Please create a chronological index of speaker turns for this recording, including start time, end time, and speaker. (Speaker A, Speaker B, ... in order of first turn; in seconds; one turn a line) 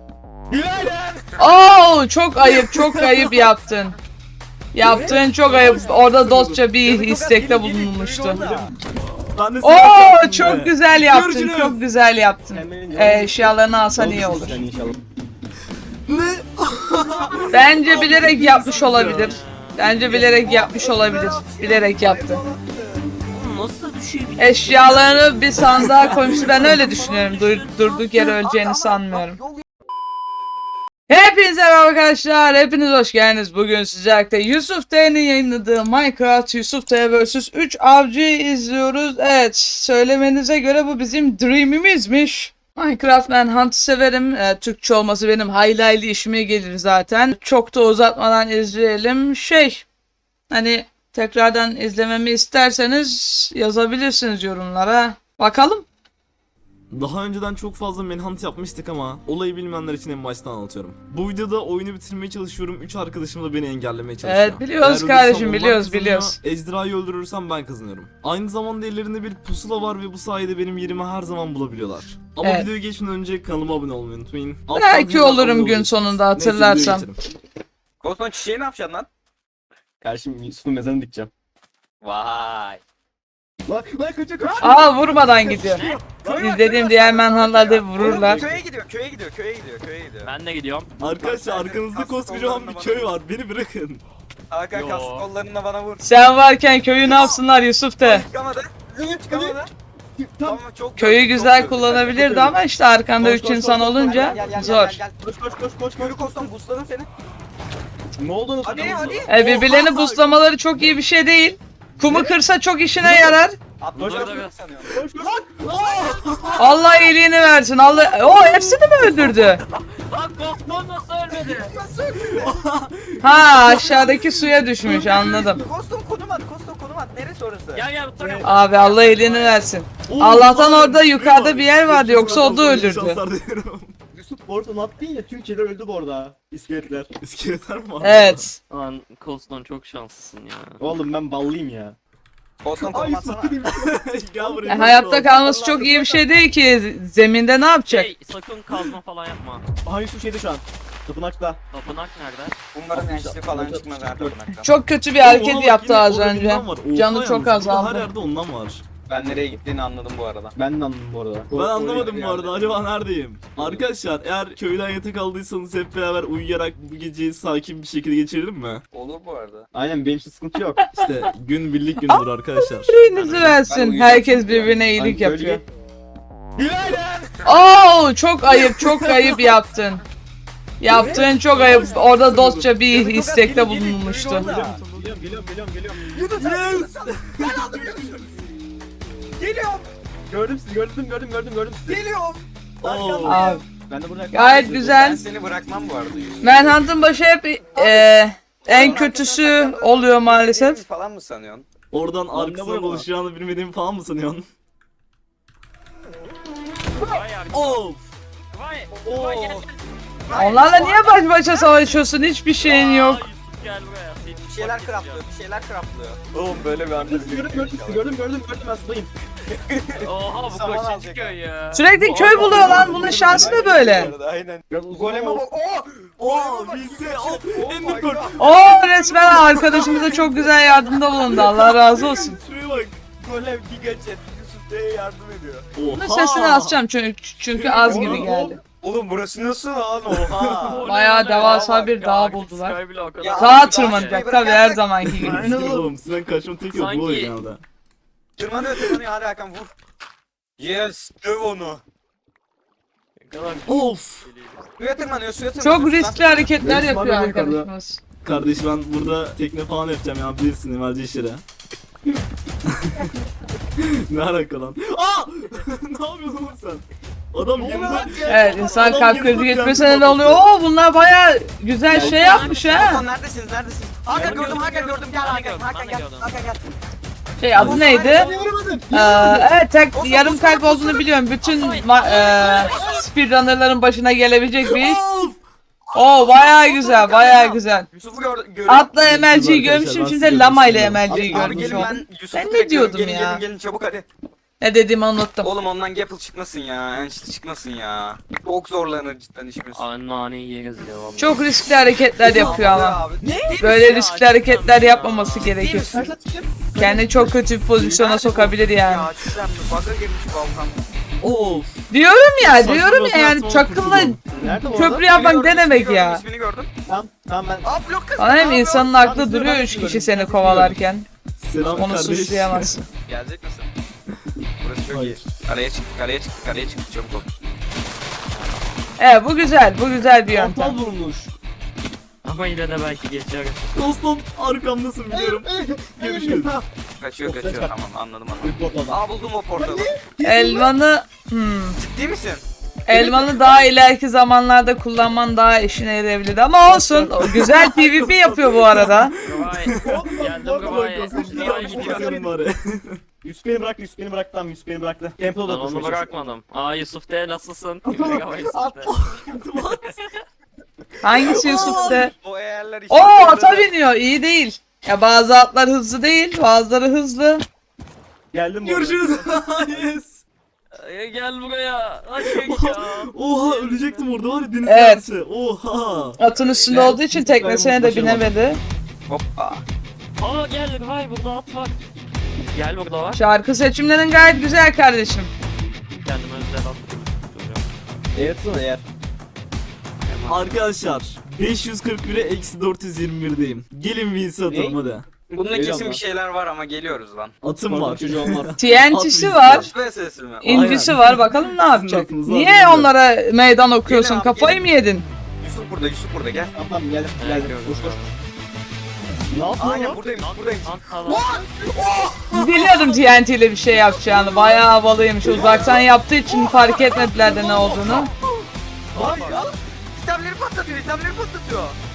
Speaker A: 0.5-1.3
Speaker B: 1.4-4.0
Speaker C: 2.4-3.5
Speaker B: 4.7-8.4
Speaker A: 4.8-5.2
Speaker C: 4.8-6.6
Speaker D: 6.8-8.7
Speaker A: 8.3-8.7
Speaker C: 9.3-11.8
Speaker B: 9.6-14.6
Speaker A: 12.5-15.0
Speaker C: 16.1-19.4
Speaker D: 17.1-18.3
Speaker B: 17.5-22.4
Speaker E: 19.1-19.9
Speaker A: 20.1-20.9
Speaker D: 20.6-22.8
Speaker A: 22.1-22.8
Speaker E: 23.3-28.2
Speaker B: 24.4-29.4
Speaker C: 25.7-26.3
Speaker D: 28.1-29.6
Speaker B: 31.1-49.8
Speaker B: 50.5-55.9
Speaker C: 56.9-77.2
Speaker B: 64.2-66.4
Speaker B: 72.4-72.7
Speaker B: 74.7-77.1
Speaker D: 78.0-79.1
Speaker A: 80.0-81.3
Speaker D: 82.0-82.8
Speaker A: 83.7-87.2
Speaker D: 84.4-90.3
Speaker B: 84.6-85.8
Speaker E: 85.6-86.0
Speaker B: 86.3-88.4
Speaker A: 87.9-88.6
Speaker E: 90.2-90.9
Speaker C: 91.0-94.0
Speaker D: 91.2-93.1
Speaker D: 94.5-96.0
Speaker E: 94.7-95.3
Speaker B: 96.0-98.3
Speaker D: 97.0-97.4
Speaker D: 98.0-99.7
Speaker A: 99.1-99.6
Speaker A: 100.2-100.6
Speaker D: 100.4-102.1
Speaker B: 101.0-105.0
Speaker A: 101.8-102.6
Speaker A: 103.2-106.2
Speaker D: 103.9-105.2
Speaker D: 106.0-107.1
Speaker A: 108.2-110.3
Speaker D: 108.6-110.2
Speaker B: 109.3-113.6
Speaker A: 112.1-112.3
Speaker A: 113.0-113.4
Speaker D: 113.8-116.8
Speaker E: 113.9-114.5
Speaker A: 114.0-114.3
Speaker A: 114.9-116.1
Speaker C: 115.7-116.7
Speaker B: 116.6-119.6
Speaker E: 119.2-121.8
Speaker D: 121.3-122.6
Speaker C: 122.1-125.1
Speaker B: 123.2-125.6
Speaker D: 124.9-127.8
Speaker E: 127.7-129.6
Speaker A: 128.2-128.5
Speaker B: 128.4-133.2
Speaker C: 130.1-133.9
Speaker A: 134.1-137.1
Speaker C: 137.2-138.5
Speaker B: 138.0-138.6
Speaker E: 138.7-140.8
Speaker A: 140.8-141.9
Speaker D: 142.6-143.6
Speaker A: 142.8-146.2
Speaker C: 143.7-145.3
Speaker B: 144.7-148.1
Speaker E: 147.9-149.6
Speaker A: 149.8-151.6
Speaker E: 151.7-152.6
Speaker D: 152.7-154.7
Speaker A: 152.9-154.4
Speaker B: 154.6-158.1
Speaker C: 155.2-158.8
Speaker D: 159.1-160.5
Speaker A: 160.5-162.7
Speaker C: 161.5-168.8
Speaker A: 163.6-163.8
Speaker D: 168.9-169.7
Speaker A: 169.7-170.8
Speaker B: 170.9-171.3
Speaker C: 170.9-173.0
Speaker B: 172.0-175.6
Speaker D: 173.1-174.7
Speaker A: 174.9-175.6
Speaker A: 176.6-177.5
Speaker B: 177.4-180.0
Speaker C: 178.5-179.6
Speaker B: 180.8-184.5
Speaker A: 180.9-182.0
Speaker C: 180.9-182.8
Speaker D: 182.8-184.9
Speaker A: 184.4-186.1
Speaker C: 184.5-185.2
Speaker D: 185.9-188.3
Speaker C: 186.2-187.8
Speaker D: 189.4-189.9
Speaker A: 190.3-192.1
Speaker D: 191.9-193.6
Speaker C: 192.8-193.5
Speaker A: 192.9-195.1
Speaker B: 193.2-193.6
Speaker B: 194.3-195.2
Speaker D: 194.9-196.7
Speaker B: 196.4-200.8
Speaker D: 197.8-198.0
Speaker D: 198.6-201.7
Speaker A: 198.7-199.0
Speaker C: 201.9-204.5
Speaker A: 202.3-203.0
Speaker D: 202.4-203.0
Speaker E: 206.9-207.8
Speaker C: 207.5-208.1
Speaker E: 208.5-209.8
Speaker D: 209.0-209.6
Speaker D: 210.2-212.0
Speaker B: 210.3-213.2
Speaker E: 212.6-215.2
Speaker D: 214.4-218.1
Speaker A: 216.9-219.1
Speaker D: 219.7-221.3
Speaker E: 220.0-222.9
Speaker B: 221.7-224.1
Speaker A: 222.0-224.1
Speaker C: 222.3-223.3
Speaker D: 222.5-228.8
Speaker A: 224.7-225.5
Speaker C: 226.2-230.3
Speaker B: 228.4-232.4
Speaker D: 229.4-230.6
Speaker C: 231.1-233.0
Speaker D: 233.2-235.7
Speaker C: 235.7-236.8
Speaker B: 235.9-238.6
Speaker C: 237.6-238.3
Speaker A: 237.6-238.6
Speaker D: 238.8-240.7
Speaker A: 240.1-240.9
Speaker C: 240.2-240.7
Speaker E: 240.6-244.2
Speaker B: 240.8-242.8
Speaker D: 241.3-241.8
Speaker D: 243.2-244.8
Speaker B: 243.4-245.5
Speaker A: 245.2-245.9
Speaker C: 245.2-247.6
Speaker E: 246.7-247.3
Speaker D: 248.4-249.7
Speaker D: 250.6-251.8
Speaker E: 253.2-254.6
Speaker C: 253.7-254.3
Speaker D: 254.8-256.5
Speaker B: 255.6-258.0
Speaker A: 256.6-257.7
Speaker C: 258.2-261.4
Speaker C: 262.6-263.1
Speaker C: 263.8-270.5
Speaker A: 267.6-269.1
Speaker D: 267.6-269.1
Speaker B: 268.3-273.0
Speaker A: 271.9-272.5
Speaker E: 272.0-272.9
Speaker D: 272.0-276.6
Speaker E: 274.1-276.3
Speaker B: 277.4-278.3
Speaker C: 277.5-278.0
Speaker A: 277.6-279.5
Speaker E: 277.7-278.4
Speaker D: 278.0-278.3
Speaker B: 278.9-285.0
Speaker D: 279.9-281.1
Speaker E: 281.4-282.9
Speaker D: 282.3-283.0
Speaker C: 284.6-285.4
Speaker D: 285.9-288.9
Speaker B: 285.9-287.9
Speaker B: 288.7-293.4
Speaker C: 289.0-291.4
Speaker A: 291.1-292.0
Speaker D: 291.3-294.1
Speaker B: 294.6-295.5
Speaker D: 295.4-299.8
Speaker E: 299.7-301.4
Speaker B: 301.2-303.0
Speaker D: 302.1-303.8
Speaker E: 303.3-305.5
Speaker B: 303.6-305.9
Speaker D: 305.6-306.1
Speaker A: 305.9-307.4
Speaker B: 306.8-309.1
Speaker D: 307.8-310.8
Speaker C: 311.2-311.9
Speaker B: 311.9-316.2
Speaker C: 312.4-314.2
Speaker A: 314.3-315.1
Speaker D: 315.0-316.7
Speaker A: 316.9-317.7
Speaker D: 317.6-318.9
Speaker B: 318.2-321.1
Speaker A: 318.4-320.8
Speaker C: 321.4-322.7
Speaker B: 321.8-322.8
Speaker D: 323.1-323.7
Speaker D: 324.6-327.3
Speaker A: 324.9-325.2
Speaker B: 329.0-330.8
Speaker A: 330.3-331.3
Speaker E: 332.2-333.8
Speaker C: 333.7-336.6
Speaker A: 335.1-336.5
Speaker D: 337.0-339.9
Speaker A: 337.2-337.7
Speaker A: 338.4-339.0
Speaker A: 339.6-340.7
Speaker B: 340.2-341.8
Speaker D: 341.8-342.4
Speaker B: 342.9-349.1
Speaker A: 342.9-343.5
Speaker A: 346.7-347.4
Speaker C: 347.2-353.0
Speaker E: 349.2-352.1
Speaker A: 349.8-352.3
Speaker D: 351.2-352.1
Speaker A: 353.2-356.1
Speaker E: 355.4-358.9
Speaker A: 357.8-358.7
Speaker C: 358.8-360.0
Speaker E: 359.7-360.2
Speaker B: 361.0-362.1
Speaker C: 361.1-362.1
Speaker D: 361.3-363.7
Speaker B: 362.9-367.4
Speaker A: 368.3-369.8
Speaker C: 368.6-370.2
Speaker E: 370.7-374.1
Speaker C: 372.2-376.2
Speaker B: 374.6-375.0
Speaker B: 376.2-378.6
Speaker D: 376.3-377.0
Speaker A: 376.7-378.3
Speaker D: 379.1-379.6
Speaker E: 380.2-381.7
Speaker E: 382.5-383.2
Speaker B: 383.1-385.3
Speaker E: 386.0-387.6
Speaker A: 388.1-388.8
Speaker E: 390.1-390.6
Speaker C: 390.3-395.1
Speaker A: 394.5-394.8
Speaker D: 395.3-397.3
Speaker A: 395.5-396.0
Speaker C: 397.4-399.7
Speaker A: 397.6-398.6
Speaker B: 398.6-399.7
Speaker D: 399.6-400.8
Speaker B: 400.4-405.1
Speaker C: 400.4-402.9
Speaker D: 403.8-404.6
Speaker D: 405.4-406.5
Speaker A: 406.5-408.0
Speaker E: 407.2-408.2
Speaker A: 409.3-410.0
Speaker D: 409.6-413.0
Speaker E: 410.1-411.3
Speaker B: 412.3-418.1
Speaker D: 414.1-414.6
Speaker A: 415.2-415.9
Speaker D: 415.3-415.8
Speaker D: 416.5-418.1
Speaker E: 418.9-419.4
Speaker A: 418.9-419.4
Speaker D: 418.9-421.8